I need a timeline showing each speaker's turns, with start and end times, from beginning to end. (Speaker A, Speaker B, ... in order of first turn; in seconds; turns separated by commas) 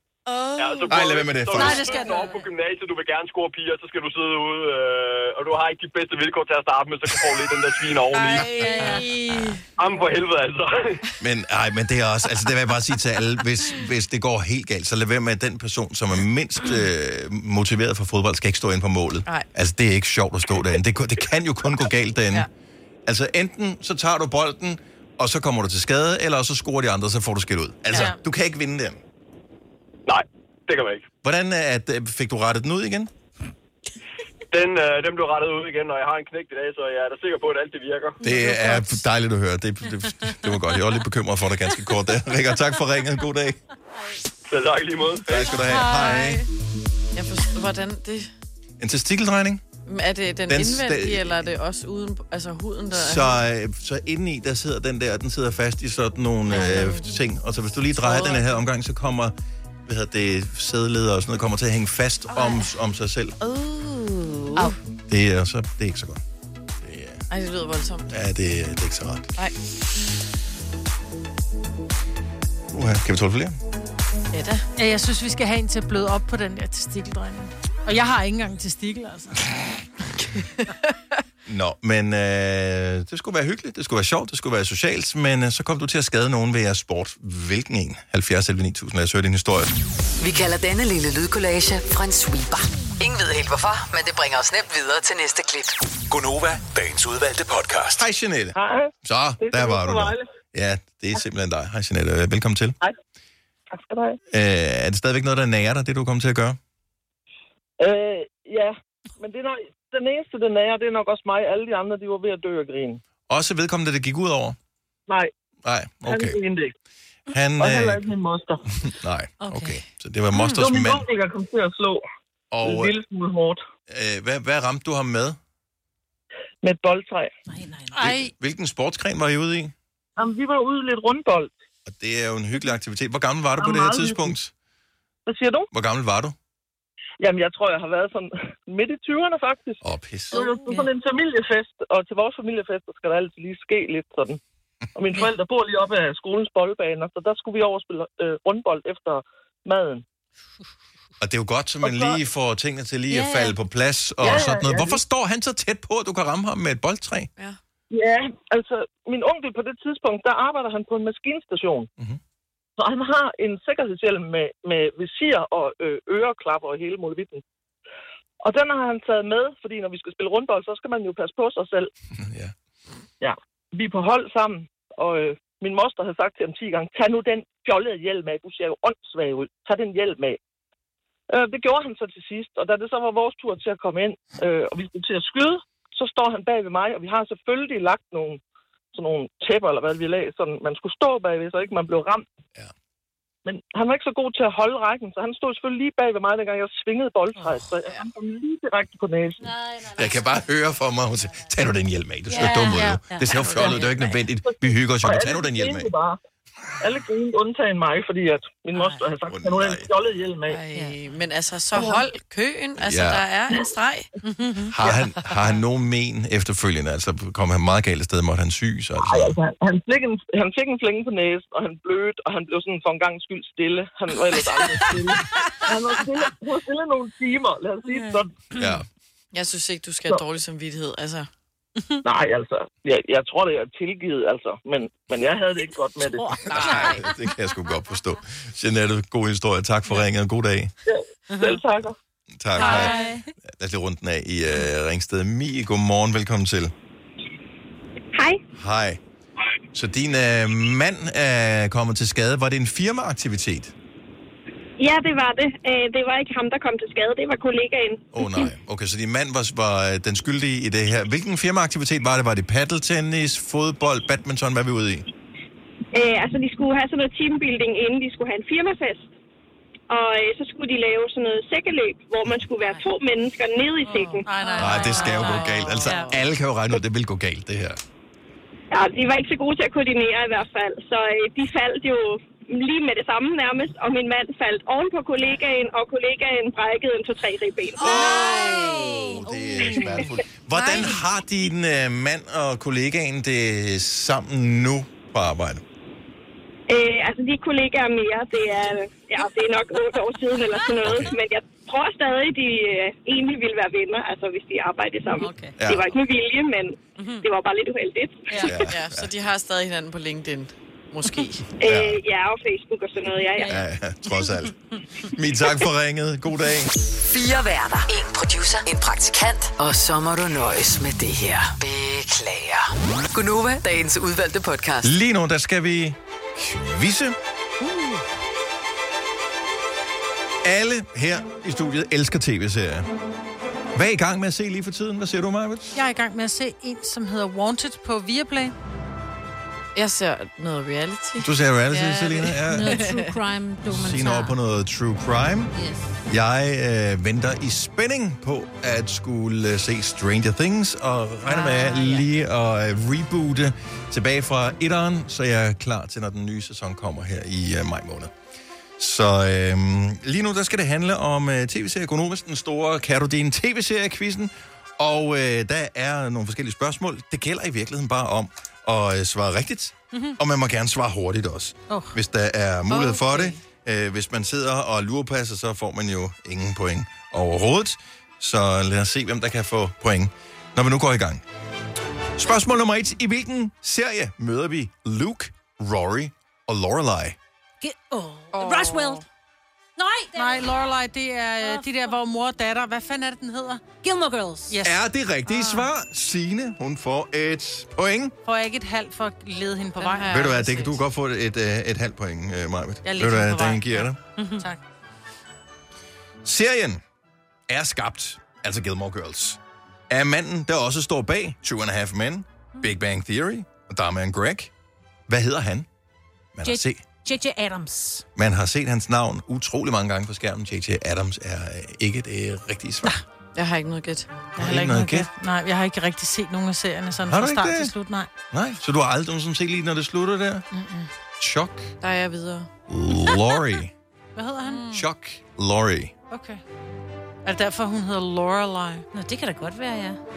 Speaker A: 0.3-0.9, Speaker B: 0.6-8.6, Speaker C: 0.9-1.9, Speaker D: 1.6-2.4, Speaker E: 1.6-1.9, Speaker A: 8.1-9.6, Speaker D: 8.3-9.6, Speaker B: 9.8-11.0, Speaker C: 11.2-22.5, Speaker C: 23.1-29.0, Speaker B: 30.1-31.1, Speaker C: 31.2-33.1, Speaker B: 34.5-38.2, Speaker C: 38.2-43.6, Speaker D: 38.2-38.8, Speaker B: 44.5-45.4, Speaker C: 45.2-46.4, Speaker D: 45.7-46.3, Speaker A: 46.0-46.4, Speaker A: 47.1-48.3, Speaker C: 48.8-49.6, Speaker A: 49.8-53.4, Speaker C: 50.5-51.5, Speaker C: 52.9-59.3, Speaker A: 56.5-57.1, Speaker A: 58.0-58.6, Speaker C: 59.9-63.4, Speaker A: 63.6-64.7, Speaker C: 65.1-66.2, Speaker C: 66.8-67.2, Speaker A: 67.3-68.1, Speaker C: 68.1-69.3, Speaker C: 72.7-73.6, Speaker A: 74.3-74.7, Speaker E: 74.8-79.4, Speaker C: 81.5-89.7, Speaker F: 90.2-95.8, Speaker G: 96.1-98.0, Speaker C: 97.9-102.8, Speaker H: 98.5-100.2, Speaker H: 103.7-104.2, Speaker C: 104.3-106.6, Speaker H: 107.8-113.0, Speaker C: 113.3-114.6, Speaker C: 115.6-116.4, Speaker H: 116.0-116.7, Speaker C: 117.3-118.0, Speaker H: 117.6-118.6, Speaker C: 118.8-121.0, Speaker D: 119.4-119.8, Speaker H: 120.4-122.0, Speaker C: 122.5-122.9, Speaker H: 122.6-123.6, Speaker C: 123.9-125.4, Speaker H: 126.6-127.3, Speaker D: 127.5-128.1, Speaker E: 127.9-128.3, Speaker C: 128.0-129.7, Speaker H: 130.2-131.5, Speaker C: 131.8-134.5, Speaker H: 133.6-134.3, Speaker H: 135.2-135.7, Speaker C: 135.7-136.3, Speaker H: 137.2-144.4, Speaker C: 139.8-140.4, Speaker D: 140.3-140.9, Speaker H: 144.9-150.0, Speaker C: 151.2-157.3, Speaker H: 151.8-152.2, Speaker D: 153.1-153.6, Speaker H: 154.2-155.0, Speaker H: 157.9-161.9, Speaker H: 162.8-167.4, Speaker H: 168.4-171.9, Speaker C: 172.2-172.5, Speaker H: 173.2-180.4, Speaker H: 181.3-188.4, Speaker H: 188.9-192.2, Speaker H: 193.4-199.5, Speaker D: 199.4-200.4, Speaker C: 199.9-205.9, Speaker D: 202.3-203.8, Speaker E: 202.7-203.0, Speaker A: 203.3-204.1, Speaker H: 204.4-206.2, Speaker H: 206.8-210.6, Speaker C: 209.3-209.9, Speaker A: 210.5-214.1, Speaker C: 212.8-213.2, Speaker C: 214.7-219.3, Speaker H: 219.0-228.3, Speaker D: 227.9-228.6, Speaker C: 228.5-228.8, Speaker A: 229.3-231.3, Speaker H: 232.0-236.4, Speaker D: 236.0-237.0, Speaker A: 236.4-237.0, Speaker C: 236.5-240.7, Speaker H: 240.8-241.9, Speaker D: 241.3-241.6, Speaker C: 242.3-246.7, Speaker D: 242.6-243.2, Speaker E: 242.6-243.0, Speaker I: 248.1-248.4, Speaker C: 248.5-249.0, Speaker C: 249.7-253.7, Speaker I: 254.8-258.0, Speaker C: 258.1-265.1, Speaker I: 265.9-269.1, Speaker I: 269.9-274.2, Speaker E: 273.8-276.0, Speaker A: 274.0-276.2, Speaker C: 274.6-277.8, Speaker I: 278.7-287.9, Speaker D: 287.8-291.0, Speaker C: 287.8-295.6, Speaker I: 296.7-308.5, Speaker D: 300.5-301.1, Speaker C: 300.8-301.1, Speaker D: 305.2-305.6, Speaker C: 305.6-305.9, Speaker D: 307.0-307.3, Speaker D: 308.3-308.6, Speaker C: 308.4-309.1, Speaker A: 308.6-311.4, Speaker I: 311.6-313.6, Speaker C: 311.6-312.0, Speaker D: 313.4-314.3, Speaker C: 313.4-316.7, Speaker F: 317.0-324.9, Speaker C: 324.8-327.1, Speaker C: 330.4-332.9, Speaker C: 333.7-335.8, Speaker E: 335.7-338.5, Speaker A: 339.7-343.1, Speaker C: 341.2-342.8, Speaker D: 342.5-344.3, Speaker C: 343.7-345.5, Speaker D: 345.5-345.9, Speaker C: 346.1-358.1, Speaker D: 351.2-352.1, Speaker C: 358.8-381.2, Speaker A: 372.7-373.4, Speaker C: 382.1-387.2, Speaker D: 387.6-389.0, Speaker A: 388.3-389.0, Speaker D: 389.8-390.4, Speaker E: 390.1-393.6, Speaker D: 391.4-391.7, Speaker D: 393.8-394.5, Speaker E: 394.5-395.6, Speaker C: 394.6-398.1, Speaker E: 398.2-400.2, Speaker A: 399.8-400.8, Speaker C: 400.1-404.0, Speaker E: 402.8-404.6, Speaker D: 404.2-404.4, Speaker C: 406.2-406.8, Speaker C: 407.5-414.5, Speaker C: 415.1-415.7, Speaker C: 416.3-416.8, Speaker D: 416.4-418.0, Speaker C: 418.1-422.9, Speaker A: 423.3-424.1, Speaker C: 424.4-425.1, Speaker E: 424.4-428.1, Speaker C: 427.0-427.7, Speaker C: 428.3-430.4, Speaker E: 430.5-430.9, Speaker C: 431.2-431.7, Speaker A: 431.8-432.5, Speaker C: 432.7-433.7, Speaker E: 434.1-434.6, Speaker A: 434.4-434.9, Speaker C: 434.7-435.9, Speaker E: 436.1-436.4, Speaker E: 437.2-438.9, Speaker D: 438.9-440.0